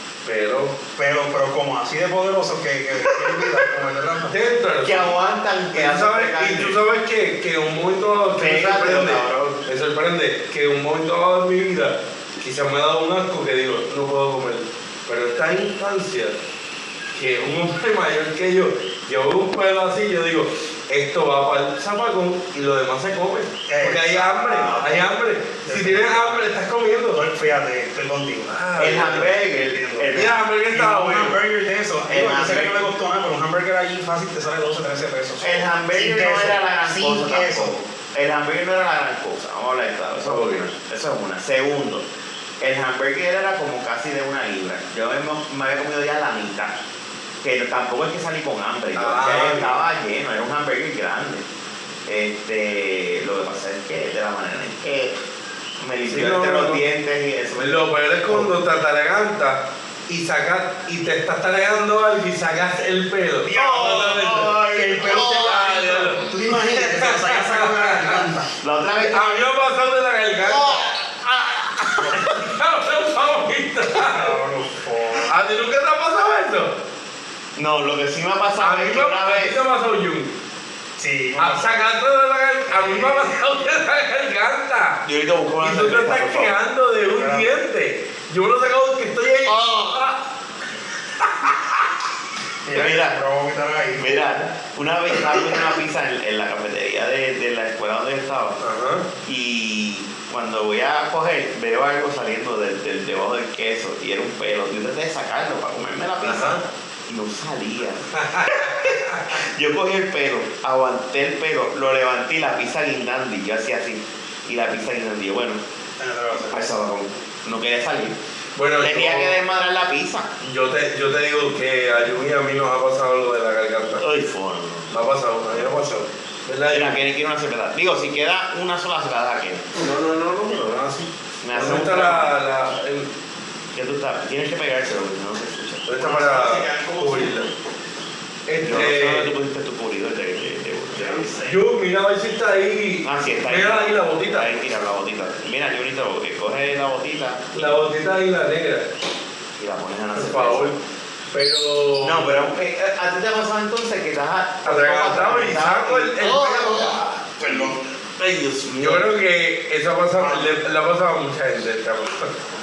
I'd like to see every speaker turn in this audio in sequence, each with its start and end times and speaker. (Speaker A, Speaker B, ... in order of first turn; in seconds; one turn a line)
Speaker A: 0.2-0.7
Speaker B: 1.0-4.3
Speaker A: 4.2-5.2
Speaker C: 4.8-6.8
Speaker A: 5.7-16.4
Speaker C: 8.3-9.6
Speaker A: 17.1-27.2
Speaker B: 23.7-25.0
Speaker C: 24.5-24.9
Speaker B: 25.6-26.5
Speaker B: 27.1-37.7
Speaker A: 28.5-29.3
Speaker C: 28.8-30.4
Speaker A: 30.1-31.4
Speaker C: 32.1-32.8
Speaker C: 35.4-42.0
Speaker A: 40.2-40.7
Speaker C: 42.6-46.7
Speaker C: 47.4-51.4
Speaker A: 48.9-49.8
Speaker C: 52.0-55.2
Speaker C: 55.8-58.5
Speaker A: 56.0-56.8
Speaker A: 57.6-68.2
Speaker B: 63.4-68.5
Speaker C: 63.5-65.5
Speaker C: 68.6-69.5
Speaker A: 69.0-71.0
Speaker C: 70.4-72.2
Speaker A: 71.9-74.3
Speaker B: 74.0-75.3
Speaker A: 75.2-76.8
Speaker C: 77.5-79.6
Speaker A: 78.6-80.3
Speaker B: 81.0-81.8
Speaker A: 81.4-85.1
Speaker B: 82.7-83.3
Speaker C: 85.0-86.5
Speaker A: 85.6-90.2
Speaker B: 87.1-87.5
Speaker B: 92.7-94.2
Speaker C: 92.7-93.2
Speaker C: 94.0-98.6
Speaker A: 98.6-99.0
Speaker C: 99.2-115.6
Speaker A: 106.2-106.6
Speaker A: 108.1-109.4
Speaker B: 116.0-116.8
Speaker C: 116.5-118.2
Speaker A: 118.5-119.4
Speaker C: 118.8-120.3
Speaker A: 120.4-124.0
Speaker C: 124.0-124.9
Speaker A: 124.9-127.0
Speaker C: 126.7-129.6
Speaker A: 129.7-133.1
Speaker C: 131.4-132.4
Speaker C: 133.7-135.8
Speaker A: 135.8-137.5
Speaker B: 135.9-137.5
Speaker A: 138.5-139.3
Speaker C: 138.6-141.3
Speaker B: 140.9-141.6
Speaker A: 141.4-144.7
Speaker C: 143.0-147.6
Speaker A: 147.5-148.9
Speaker C: 149.6-150.8
Speaker A: 150.1-150.7
Speaker A: 151.3-152.4
Speaker C: 152.0-159.1
Speaker A: 154.6-157.7
Speaker A: 158.8-162.3
Speaker B: 160.2-160.6